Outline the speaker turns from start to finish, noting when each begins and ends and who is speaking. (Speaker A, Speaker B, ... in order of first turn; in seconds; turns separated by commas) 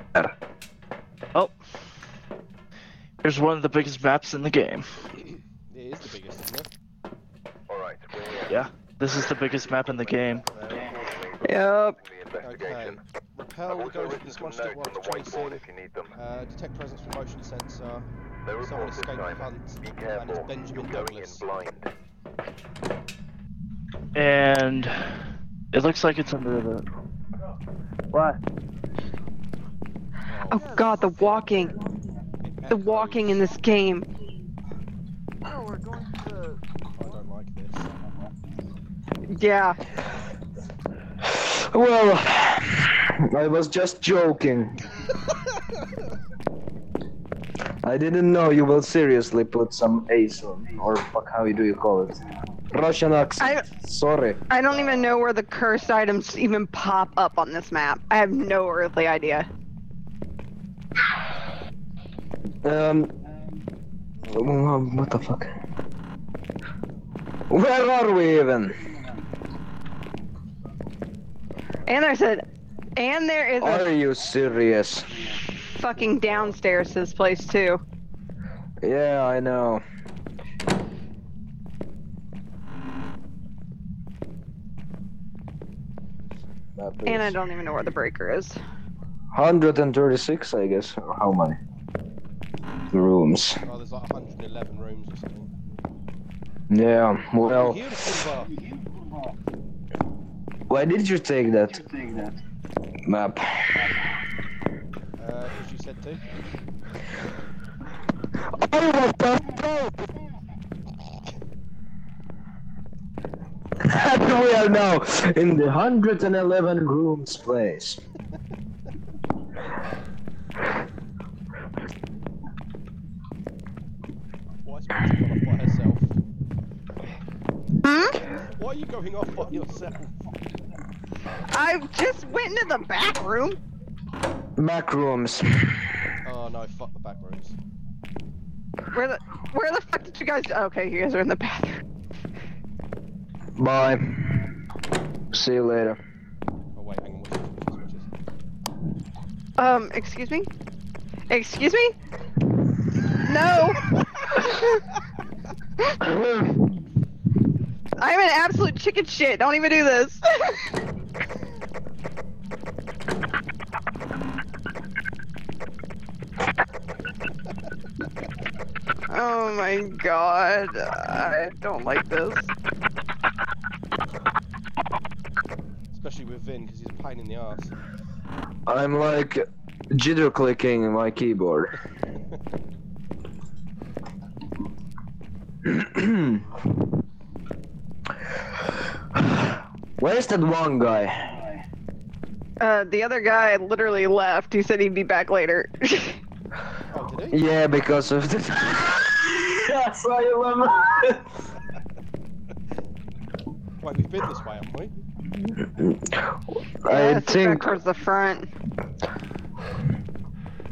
Speaker A: 3.2-5.0, Speaker B: 5.2-6.7, Speaker C: 7.7-8.7, Speaker A: 8.4-10.5, Speaker B: 10.5-10.9, Speaker C: 10.8-13.0, Speaker D: 11.4-12.0, Speaker B: 12.4-15.6, Speaker C: 13.7-16.1, Speaker B: 16.1-18.1, Speaker C: 18.4-21.9, Speaker B: 18.6-21.5, Speaker A: 24.1-26.9, Speaker A: 28.1-28.4, Speaker B: 30.3-31.1, Speaker D: 30.5-31.8, Speaker B: 32.4-33.5, Speaker D: 32.7-34.1, Speaker B: 37.0-37.9, Speaker D: 39.3-39.8, Speaker E: 41.3-44.8, Speaker E: 47.8-54.4, Speaker D: 54.5-59.5, Speaker E: 62.6-63.1, Speaker E: 64.3-65.5, Speaker E: 67.5-68.8, Speaker D: 71.9-72.4, Speaker D: 73.0-73.9, Speaker E: 73.6-75.1, Speaker D: 75.6-77.8, Speaker E: 78.8-79.8, Speaker E: 86.8-87.4, Speaker D: 87.1-88.6, Speaker E: 89.3-91.6, Speaker E: 92.9-93.6, Speaker B: 93.7-95.5, Speaker E: 96.7-97.8, Speaker B: 97.4-98.6, Speaker E: 100.7-101.9, Speaker E: 103.1-103.8, Speaker B: 105.2-106.3, Speaker E: 108.5-110.1, Speaker E: 113.8-118.0, Speaker B: 124.6-126.2, Speaker D: 127.8-128.2, Speaker B: 128.5-130.1, Speaker D: 131.5-133.6, Speaker E: 134.6-135.9, Speaker B: 136.2-137.6, Speaker D: 138.9-141.8, Speaker E: 143.6-144.3, Speaker E: 145.3-146.0, Speaker B: 146.8-148.1, Speaker D: 149.6-150.5, Speaker D: 151.3-151.9, Speaker D: 153.1-153.8, Speaker D: 154.4-154.6, Speaker E: 156.0-156.6, Speaker D: 158.0-160.7, Speaker D: 169.1-172.5, Speaker B: 175.9-177.8, Speaker E: 178.7-181.7, Speaker E: 185.7-186.4, Speaker E: 189.2-191.5, Speaker D: 192.6-196.2, Speaker B: 196.9-197.4, Speaker E: 197.3-201.2, Speaker B: 203.8-204.9, Speaker E: 205.4-207.7, Speaker D: 206.9-208.5